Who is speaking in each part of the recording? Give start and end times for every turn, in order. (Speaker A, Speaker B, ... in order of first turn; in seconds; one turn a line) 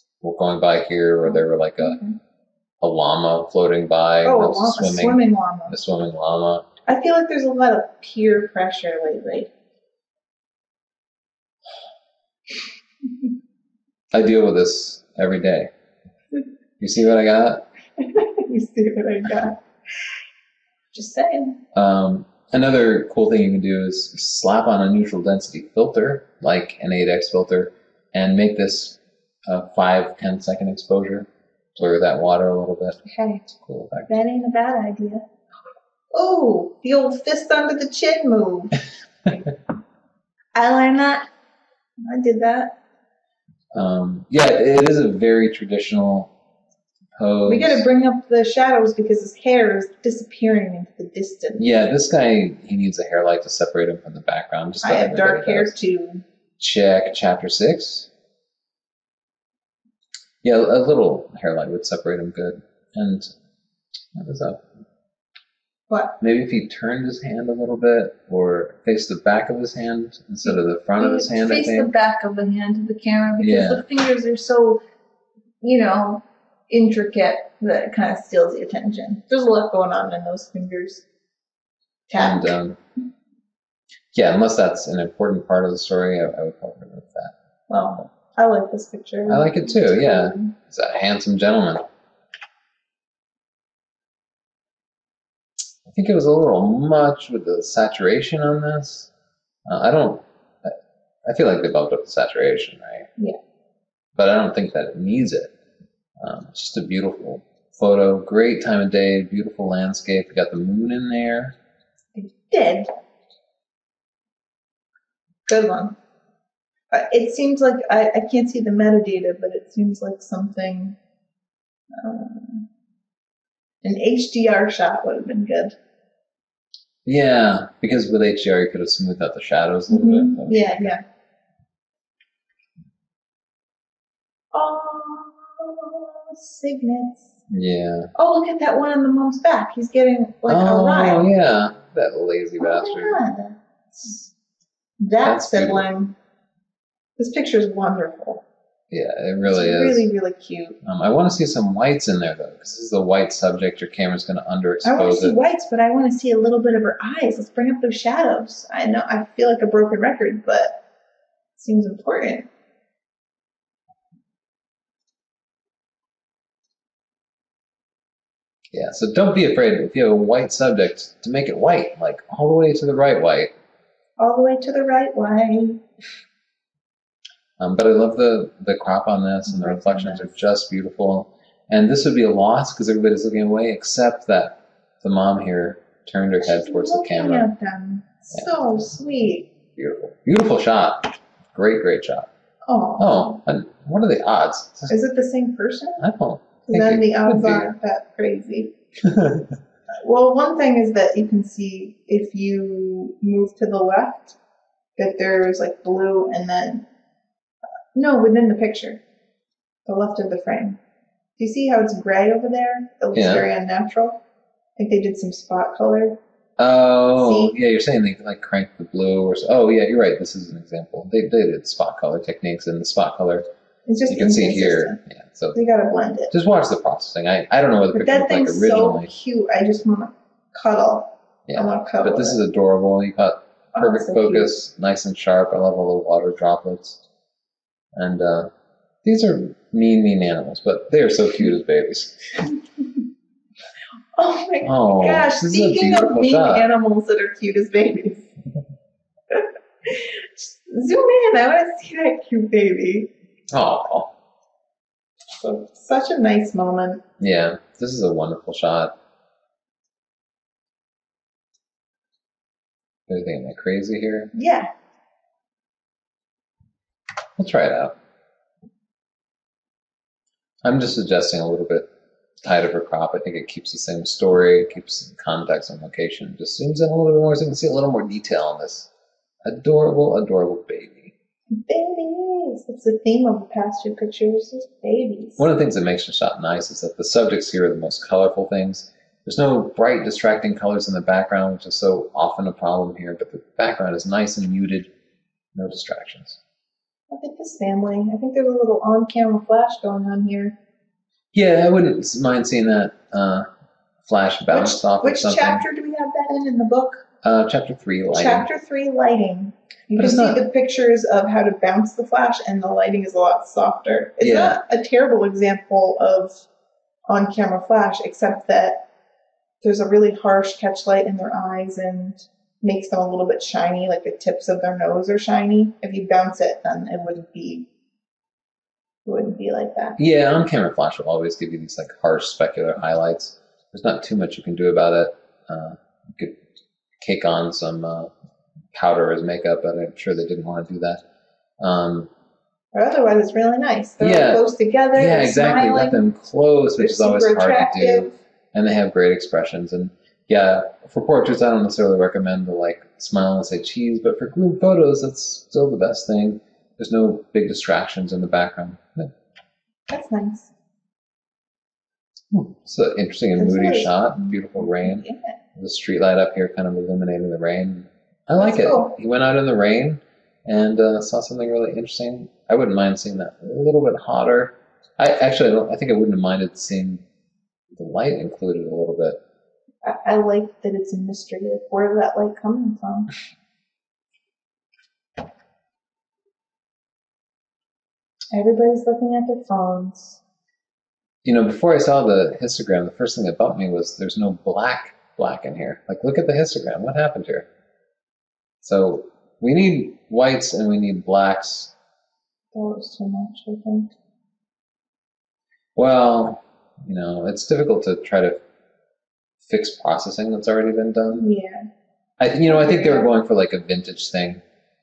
Speaker A: 0.2-2.0
Speaker B: 1.2-2.2
Speaker A: 2.8-6.7
Speaker B: 4.2-5.8
Speaker B: 6.8-9.5
Speaker A: 14.1-15.7
Speaker A: 16.8-17.6
Speaker B: 18.0-19.6
Speaker B: 20.9-21.6
Speaker A: 21.7-33.0
Speaker B: 33.0-33.4
Speaker A: 33.5-34.2
Speaker B: 34.1-35.2
Speaker B: 36.1-39.4
Speaker B: 40.5-41.3
Speaker B: 42.0-42.8
Speaker A: 43.7-46.3
Speaker A: 47.2-47.9
Speaker B: 47.4-51.7
Speaker A: 51.6-55.8
Speaker B: 54.8-56.2
Speaker A: 56.6-58.1
Speaker A: 60.4-63.3
Speaker A: 64.1-64.6
Speaker B: 65.9-66.2
Speaker A: 66.2-71.9
Speaker B: 70.4-74.8
Speaker A: 73.4-73.8
Speaker B: 75.6-81.0
Speaker B: 82.1-82.5
Speaker A: 82.2-82.8
Speaker A: 84.1-87.3
Speaker B: 87.7-90.5
Speaker A: 89.3-91.8
Speaker A: 95.8-99.1
Speaker A: 99.7-103.1
Speaker A: 104.1-105.5
Speaker A: 106.2-111.5
Speaker B: 112.1-112.9
Speaker B: 115.5-116.0
Speaker B: 116.9-121.0
Speaker B: 121.9-122.7
Speaker B: 123.8-125.8
Speaker A: 127.0-130.9
Speaker B: 129.9-131.0
Speaker B: 134.5-137.3
Speaker A: 137.5-138.1
Speaker B: 138.1-141.2
Speaker A: 140.5-143.2
Speaker B: 142.6-144.3
Speaker B: 145.0-146.2
Speaker A: 145.2-145.9
Speaker B: 147.2-148.4
Speaker A: 148.9-150.1
Speaker B: 149.5-150.8
Speaker A: 150.8-155.4
Speaker B: 154.8-160.8
Speaker B: 161.6-162.5
Speaker A: 168.7-173.5
Speaker B: 174.2-175.8
Speaker A: 177.6-187.5
Speaker B: 179.5-180.3
Speaker B: 186.4-189.5
Speaker A: 188.3-188.9
Speaker A: 189.7-192.3
Speaker B: 192.7-193.3
Speaker A: 193.0-194.9
Speaker B: 194.9-196.0
Speaker A: 196.0-197.7
Speaker B: 196.6-198.7
Speaker A: 199.1-199.5
Speaker B: 200.0-204.3
Speaker B: 205.0-206.9
Speaker B: 207.9-209.0
Speaker B: 209.8-210.8
Speaker B: 211.4-214.2
Speaker A: 213.1-213.5
Speaker B: 214.8-216.2
Speaker A: 216.6-223.4
Speaker B: 217.1-217.5
Speaker B: 223.8-225.0
Speaker A: 224.1-225.6
Speaker B: 225.5-226.3
Speaker A: 226.3-229.1
Speaker B: 227.9-232.4
Speaker A: 231.5-237.0
Speaker B: 233.7-234.5
Speaker A: 237.9-238.5
Speaker A: 239.0-242.4
Speaker B: 244.1-248.3
Speaker A: 244.6-246.7
Speaker B: 249.3-253.1
Speaker A: 253.5-254.1
Speaker B: 255.4-257.0
Speaker A: 257.2-258.9
Speaker A: 263.1-264.3
Speaker B: 264.3-264.7
Speaker A: 267.4-267.9
Speaker A: 270.6-271.9
Speaker A: 272.4-278.9
Speaker A: 279.4-281.1
Speaker B: 281.5-285.4
Speaker A: 285.4-294.9
Speaker A: 295.5-296.4
Speaker B: 297.1-300.5
Speaker A: 301.3-303.4
Speaker A: 304.0-305.6
Speaker B: 304.5-307.0
Speaker A: 307.2-308.5
Speaker B: 308.1-316.4
Speaker A: 309.9-310.4
Speaker A: 314.2-314.6
Speaker B: 317.1-318.8
Speaker B: 319.6-327.6
Speaker B: 329.0-330.0
Speaker A: 330.0-336.4
Speaker A: 337.0-338.1
Speaker A: 338.7-341.0
Speaker A: 341.6-342.1
Speaker B: 342.7-346.0
Speaker A: 344.0-359.1
Speaker B: 346.8-348.1
Speaker B: 359.9-360.5
Speaker A: 362.3-377.0
Speaker B: 363.4-365.4
Speaker B: 368.4-368.9
Speaker A: 377.7-379.2
Speaker B: 379.8-383.1
Speaker B: 388.3-390.2
Speaker A: 391.2-397.4
Speaker A: 398.6-401.7
Speaker B: 402.5-403.9
Speaker A: 405.7-408.4
Speaker A: 409.4-411.3
Speaker B: 411.1-411.7
Speaker A: 412.2-414.4
Speaker B: 412.4-413.1